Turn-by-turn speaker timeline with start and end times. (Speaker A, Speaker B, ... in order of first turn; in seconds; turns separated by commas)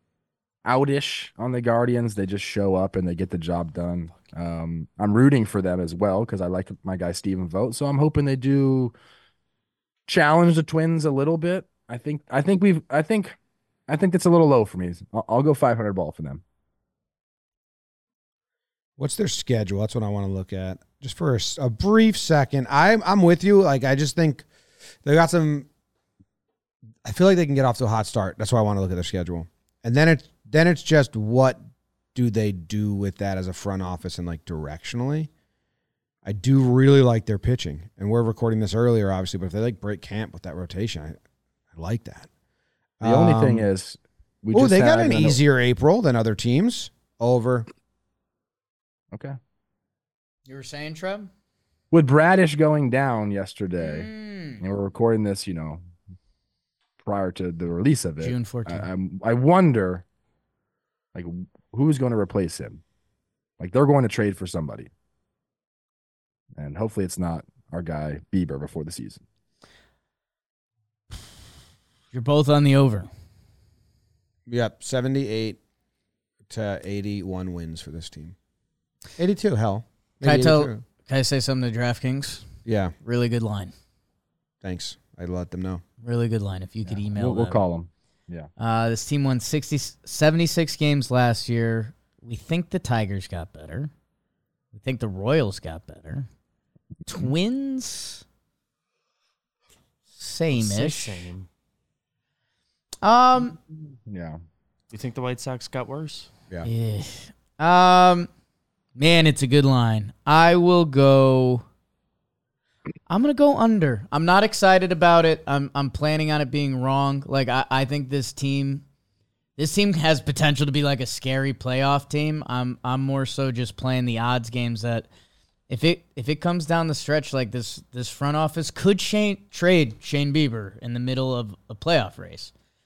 Speaker A: 0.7-8.9, Speaker A: 10.1-13.4, Speaker A: 13.9-16.4, Speaker B: 19.0-24.5, Speaker B: 25.0-25.7, Speaker B: 27.0-31.6, Speaker B: 32.1-35.3, Speaker B: 36.2-41.2, Speaker B: 41.7-42.3, Speaker B: 43.0-43.7, Speaker A: 43.0-45.4, Speaker B: 44.5-47.7, Speaker C: 50.5-51.3, Speaker A: 51.9-54.1, Speaker C: 53.8-54.6, Speaker A: 54.6-55.8, Speaker A: 57.0-60.0, Speaker C: 58.2-58.9, Speaker A: 61.1-62.8, Speaker A: 63.6-64.9, Speaker A: 66.6-69.2, Speaker C: 72.1-73.1, Speaker B: 74.5-75.6, Speaker B: 76.5-78.4, Speaker B: 79.2-80.8, Speaker C: 80.2-82.5, Speaker B: 82.7-82.9, Speaker C: 83.0-83.7, Speaker B: 84.6-85.8, Speaker C: 86.0-87.6, Speaker A: 86.9-88.5, Speaker C: 88.6-93.9, Speaker C: 94.7-96.3, Speaker C: 97.1-98.2, Speaker C: 100.2-101.2, Speaker D: 100.5-101.5, Speaker C: 103.0-103.6, Speaker A: 104.1-104.4, Speaker D: 104.9-106.3, Speaker C: 106.6-108.3, Speaker C: 109.0-111.6, Speaker C: 113.1-118.8, Speaker C: 119.6-125.1, Speaker C: 125.7-132.5